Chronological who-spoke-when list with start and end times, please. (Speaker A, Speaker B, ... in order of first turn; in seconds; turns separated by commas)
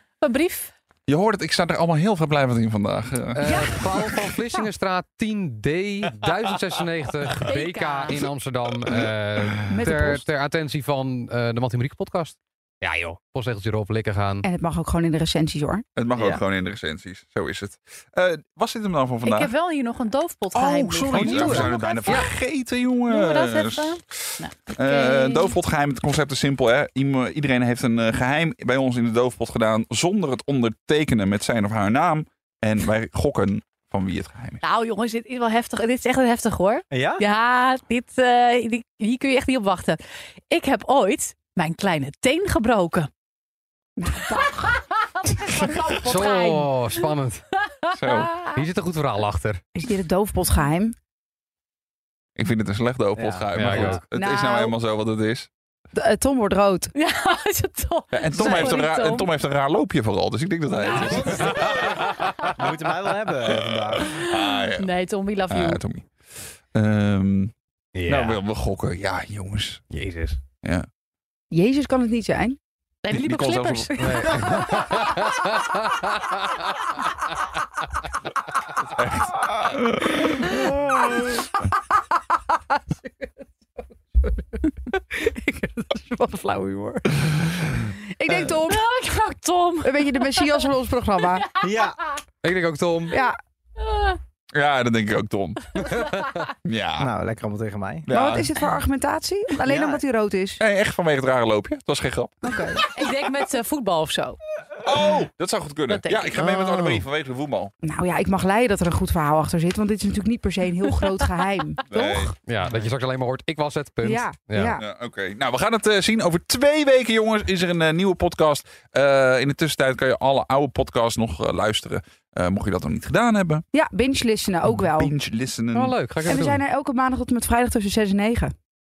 Speaker A: 0.2-0.7, Speaker B: 1.1-4.2, Speaker C: 3.3-14.5, Speaker D: 3.4-3.8, Speaker A: 7.5-8.3, Speaker D: 9.7-10.2, Speaker D: 14.4-15.8, Speaker B: 16.0-19.5, Speaker E: 16.2-16.4, Speaker A: 19.2-21.6, Speaker B: 20.5-34.6, Speaker C: 21.1-22.3, Speaker D: 21.1-22.2, Speaker A: 23.1-25.6, Speaker A: 34.6-43.1, Speaker E: 36.9-37.2, Speaker D: 44.0-44.8, Speaker A: 44.7-46.9, Speaker C: 46.0-47.4, Speaker B: 47.9-48.3, Speaker A: 48.0-48.5, Speaker C: 48.4-49.6, Speaker D: 49.8-51.0, Speaker B: 52.4-55.5, Speaker E: 53.2-53.5, Speaker C: 53.5-54.0, Speaker D: 54.1-54.8, Speaker D: 55.9-56.9, Speaker A: 57.0-59.3, Speaker B: 58.1-62.1, Speaker C: 61.0-61.5, Speaker E: 61.2-61.9, Speaker E: 62.5-64.1, Speaker B: 63.5-64.9, Speaker A: 64.0-65.8, Speaker B: 65.5-66.1, Speaker B: 66.7-67.5, Speaker C: 68.0-68.4, Speaker B: 68.0-69.8, Speaker C: 69.9-70.4, Speaker D: 71.5-72.6, Speaker A: 73.0-74.4, Speaker B: 73.1-74.0, Speaker C: 74.0-76.1, Speaker B: 79.0-81.3, Speaker D: 84.7-88.8, Speaker A: 88.7-90.7, Speaker D: 89.8-91.5, Speaker A: 91.6-91.9, Speaker E: 91.6-92.0, Speaker C: 92.4-93.2, Speaker A: 93.8-94.2, Speaker B: 94.5-95.6, Speaker C: 95.9-96.2, Speaker B: 96.7-97.1, Speaker E: 97.0-98.1, Speaker B: 98.1-98.5, Speaker D: 98.1-100.6, Speaker E: 99.7-100.0, Speaker B: 100.6-102.4, Speaker D: 102.4-102.8, Speaker A: 102.9-104.4, Speaker B: 104.8-107.7, Speaker A: 105.9-107.0, Speaker D: 107.8-112.3, Speaker B: 111.9-112.3, Speaker C: 112.4-114.8, Speaker D: 114.0-114.8, Speaker B: 114.8-123.6, Speaker D: 123.7-125.1, Speaker B: 124.7-126.0, Speaker C: 125.7-126.6, Speaker D: 126.2-128.5